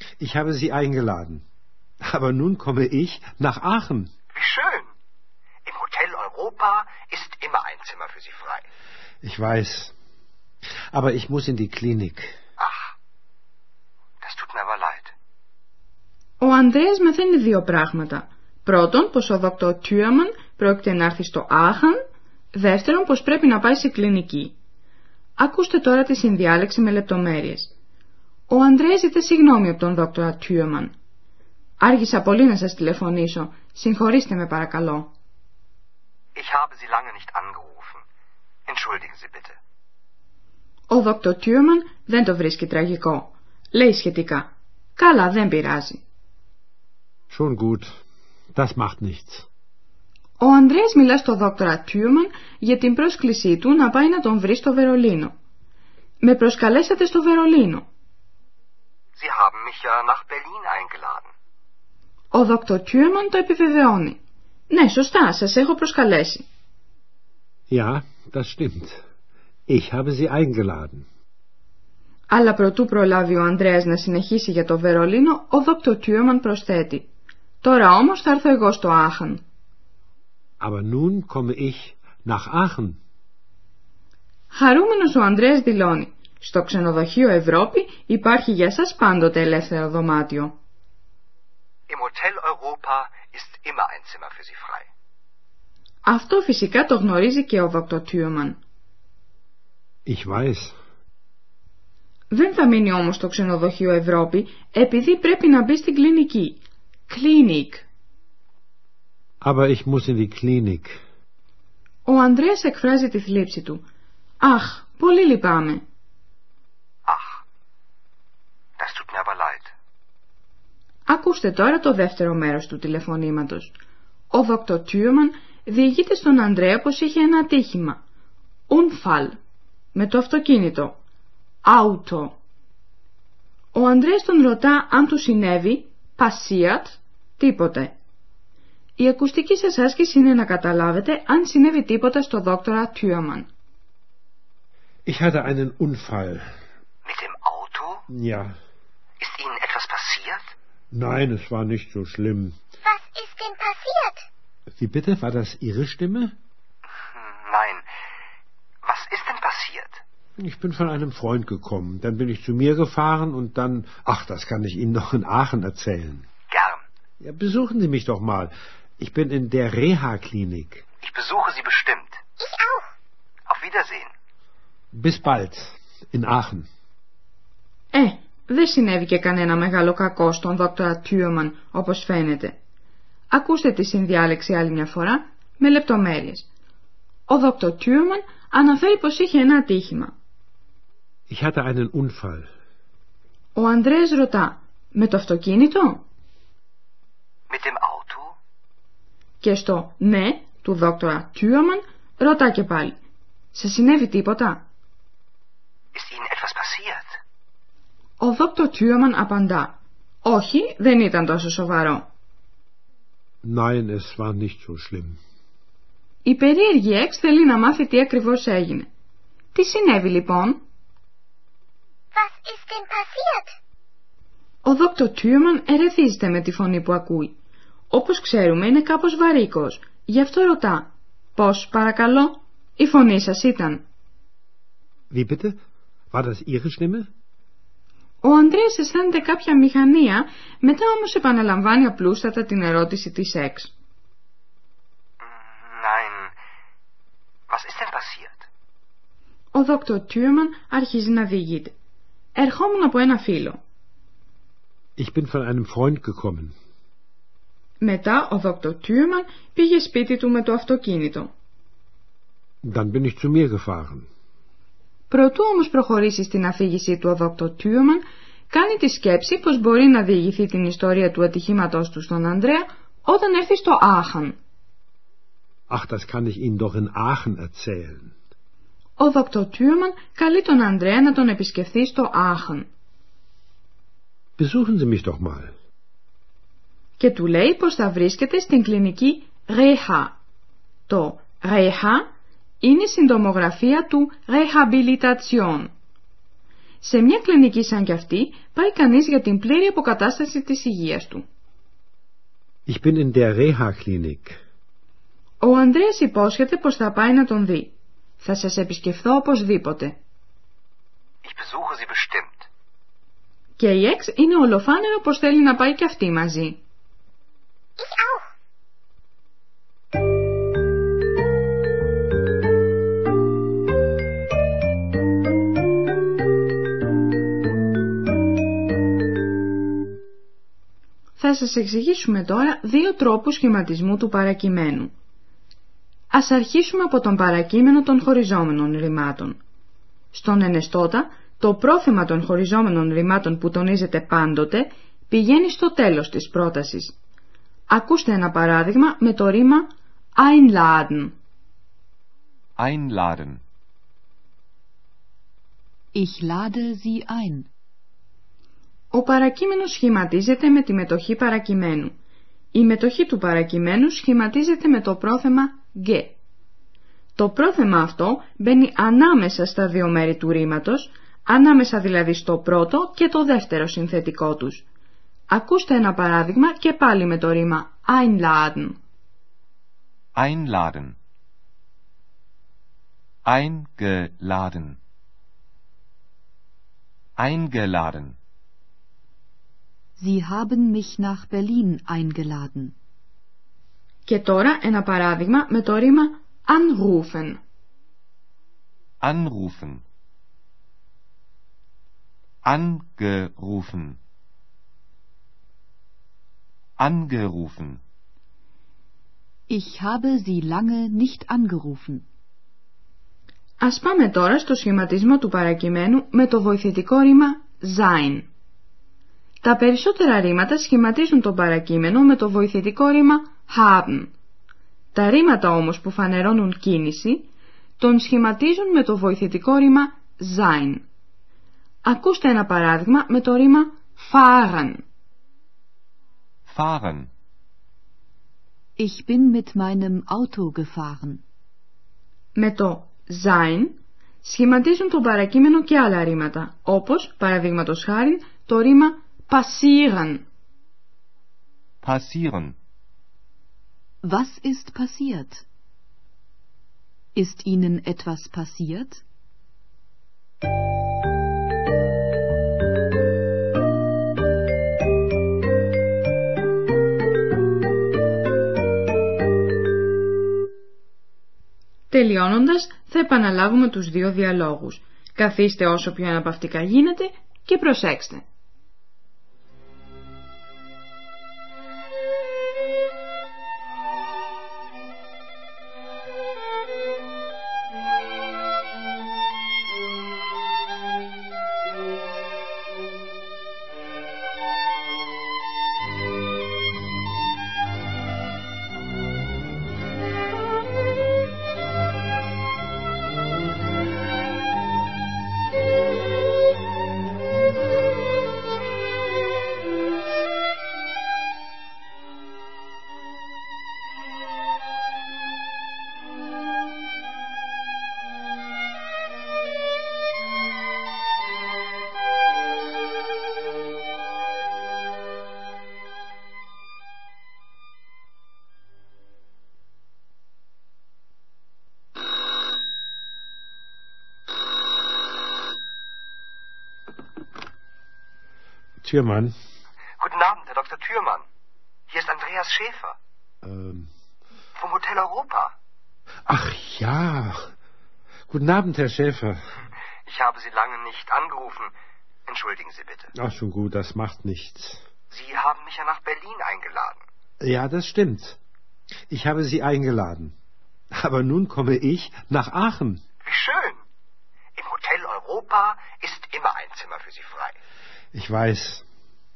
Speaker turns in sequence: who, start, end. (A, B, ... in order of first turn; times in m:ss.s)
0:00.2-0:01.4 A
0:02.0-0:04.1 A
0:04.3-0:04.9 B
0:05.7-0:08.6 B
0:09.2-0:09.9 A
0:10.9-0:12.4 A
0:12.6-0:12.9 B
0:14.2-0:15.1 B
0:16.4-0:22.0 C
0:22.5-0:24.6 C
0:25.4-0:27.7 C
0:28.5-0:30.9 C
0:31.8-0:35.1 C
0:36.4-0:38.0 B
0:38.7-0:39.6 B
0:40.9-0:46.0 C
0:47.3-0:47.9 A
0:48.6-0:49.5 A
0:50.4-0:55.3 C
0:56.2-0:57.8 C
0:59.2-1:01.3 B
1:02.3-1:04.2 C
1:04.7-1:06.5 C
1:07.7-1:09.0 A
1:09.7-1:11.1 A
1:12.3-1:17.1 C
1:17.6-1:19.4 C
1:20.6-1:23.0 A
1:24.5-1:30.6 C
1:31.9-1:34.9 B
1:36.1-1:38.6 C
1:40.1-1:40.8 A
1:42.3-1:47.9 C
1:49.4-1:51.0 A
1:52.1-1:53.8 C
1:54.4-1:55.8 C
1:57.1-1:57.4 B
1:58.8-1:59.7 B
2:01.1-2:03.7 C
2:04.3-2:08.0 C
2:08.7-2:09.4 C
2:10.0-2:11.0 C
2:11.7-2:12.4 C
2:13.7-2:17.9 C
2:19.0-2:23.5 C
2:25.1-2:26.6 A
2:27.0-2:28.0 B
2:28.1-2:28.6 A
2:29.2-2:30.5 B
2:30.9-2:32.6 A
2:32.8-2:34.2 D
2:34.8-2:36.3 A
2:37.2-2:37.8 B
2:38.8-2:40.0 B
2:40.4-2:46.3 A
2:46.5-2:46.8 B
2:47.2-2:50.8 A
2:51.0-2:52.2 B
2:52.4-2:52.9 D
2:53.5-2:54.1 B
2:54.9-2:56.7 A
2:57.9-3:02.6 C
3:03.3-3:06.5 C
3:07.3-3:10.1 C
3:11.3-3:12.5 A
3:13.6-3:16.0 C
3:17.5-3:18.4 B
3:19.4-3:23.0 C
3:23.5-3:24.6 C
3:26.0-3:27.1 B
3:28.2-3:32.0 C
3:33.4-3:35.2 A
3:36.2-3:38.9 C
3:39.6-3:40.6 C
3:42.2-3:43.5 D
3:44.6-3:47.4 C
3:47.9-3:53.8 C
3:55.1-3:55.6 A
3:56.1-3:57.1 A
3:58.2-4:03.7 C
4:05.2-4:06.3 B
4:07.5-4:08.5 B
4:09.5-4:11.7 C
4:12.4-4:13.6 C
4:15.0-4:16.5 A
4:17.8-4:21.3 C
4:22.6-4:24.1 A
4:25.1-4:34.4 C
4:35.7-4:38.1 A
4:39.0-4:42.7 C
4:44.4-4:45.5 A
4:47.0-4:50.2 C
4:50.9-4:52.0 C
4:52.6-4:55.7 C
4:56.8-5:01.2 C
5:02.7-5:04.4 A
5:05.4-5:10.0 C
5:11.2-5:12.5 B
5:13.6-5:16.6 C
5:17.8-5:18.2 D
5:31.2-5:34.9 C
5:36.1-5:39.4 C
5:40.1-5:47.0 C
5:47.7-5:51.2 C
5:52.6-5:53.4 E
5:56.0-5:57.5 F
5:58.9-6:01.9 C
6:02.5-6:06.2 C
6:07.2-6:14.6 C
6:15.3-6:18.8 C
6:20.2-6:21.0 E
6:23.2-6:24.8 E
6:27.2-6:28.2 E
6:30.0-6:32.7 F
6:34.1-6:37.4 C
6:39.0-6:39.8 E
6:42.4-6:44.0 E
6:46.8-6:47.8 E
6:49.5-6:52.0 F
6:53.6-6:58.3 C
6:59.4-7:04.1 C
7:04.9-7:10.8 C
7:11.8-7:14.8 C
7:16.5-7:17.1 B
7:18.8-7:21.2 F
7:22.4-7:30.3 C
7:31.8-7:32.6 E
7:34.0-7:35.4 F
7:37.2-7:39.0 F
7:51.9-7:58.2 C
8:58.8-8:59.3 A
9:00.0-9:01.2 B
9:01.9-9:03.0 B
9:03.4-9:03.9 A
9:04.6-9:05.6 B
9:06.3-9:07.5 A
9:08.3-9:09.4 A
9:10.1-9:11.7 B
9:12.3-9:13.1 B
9:13.2-9:14.8 A
9:15.1-9:17.0 B
9:17.4-9:18.4 A
9:19.1-9:20.3 A
9:21.0-9:23.0 A
9:23.2-9:23.8 B
9:24.6-9:27.6 B
9:28.1-9:28.8 A